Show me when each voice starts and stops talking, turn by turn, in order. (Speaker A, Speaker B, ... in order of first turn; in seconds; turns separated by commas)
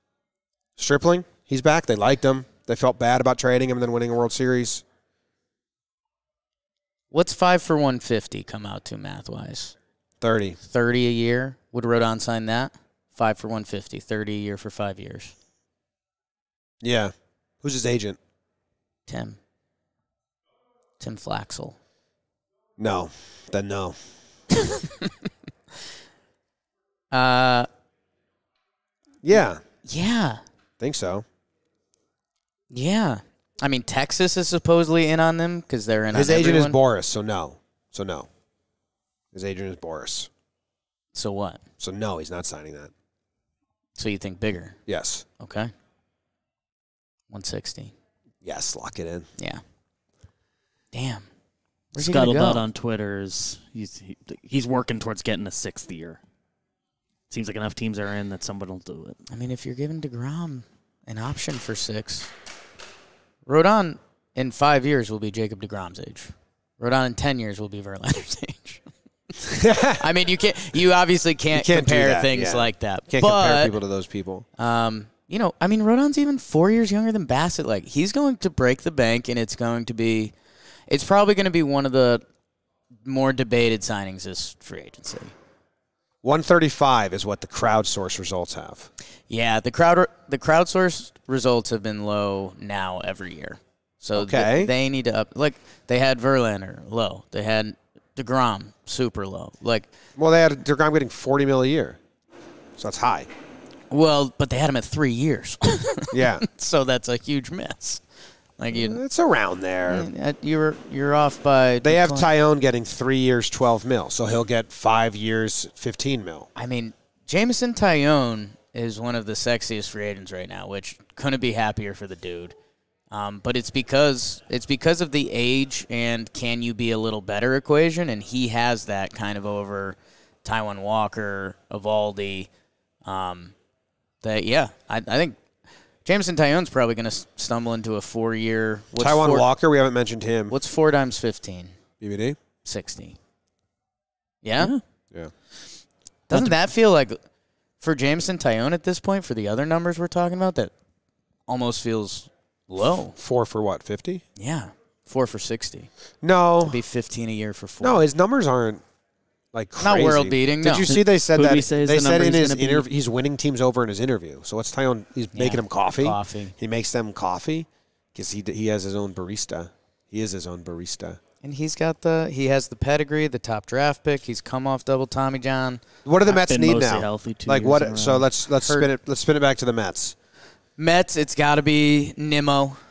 Speaker A: 0.8-4.8, Speaker B: 7.1-9.8, Speaker A: 10.2-10.6, Speaker B: 10.6-15.3, Speaker A: 16.8-18.2, Speaker B: 19.1-19.4, Speaker B: 21.0-21.8, Speaker A: 22.8-24.0, Speaker B: 24.5-25.1, Speaker B: 27.1-27.7, Speaker A: 29.2-29.6, Speaker B: 29.3-30.4, Speaker A: 30.8-31.2, Speaker B: 32.7-36.8, Speaker A: 36.1-38.3, Speaker A: 39.3-40.3, Speaker B: 41.1-41.6, Speaker A: 41.8-42.9, Speaker B: 44.0-44.8, Speaker A: 44.9-45.2, Speaker B: 45.4-45.7, Speaker B: 47.3-47.9, Speaker A: 48.4-49.3, Speaker B: 49.4-49.6, Speaker B: 50.9-51.3, Speaker B: 51.9-52.7, Speaker C: 52.0-56.2, Speaker C: 57.3-59.2, Speaker B: 59.3-62.3, Speaker B: 63.5-68.8, Speaker A: 69.5-70.0, Speaker B: 70.0-73.8, Speaker A: 71.5-74.5, Speaker B: 74.6-80.3, Speaker B: 80.9-82.2, Speaker B: 83.0-85.3, Speaker A: 86.2-88.9, Speaker B: 89.3-99.9, Speaker A: 94.2-94.7, Speaker A: 100.2-102.0, Speaker A: 102.8-103.3, Speaker B: 103.9-108.0, Speaker A: 106.1-106.5, Speaker B: 108.6-109.0, Speaker A: 108.7-110.1, Speaker B: 109.9-112.3, Speaker A: 111.8-116.5, Speaker B: 116.5-122.5, Speaker B: 123.1-132.5, Speaker B: 133.1-133.5, Speaker B: 134.2-135.4, Speaker B: 136.1-139.5, Speaker A: 139.0-140.6, Speaker B: 140.5-141.7, Speaker A: 142.0-142.4, Speaker B: 142.6-143.2, Speaker B: 144.4-144.8, Speaker B: 146.3-147.2, Speaker C: 146.3-146.6, Speaker B: 147.8-150.7, Speaker B: 151.5-153.2, Speaker A: 153.2-154.2, Speaker B: 154.4-155.9, Speaker A: 156.2-156.8, Speaker B: 156.6-158.0, Speaker A: 157.8-158.8, Speaker A: 159.5-171.2, Speaker B: 159.8-160.9, Speaker C: 160.9-162.9, Speaker B: 165.3-166.6, Speaker B: 171.4-175.8, Speaker A: 176.1-180.1, Speaker C: 176.3-178.3, Speaker B: 180.8-182.8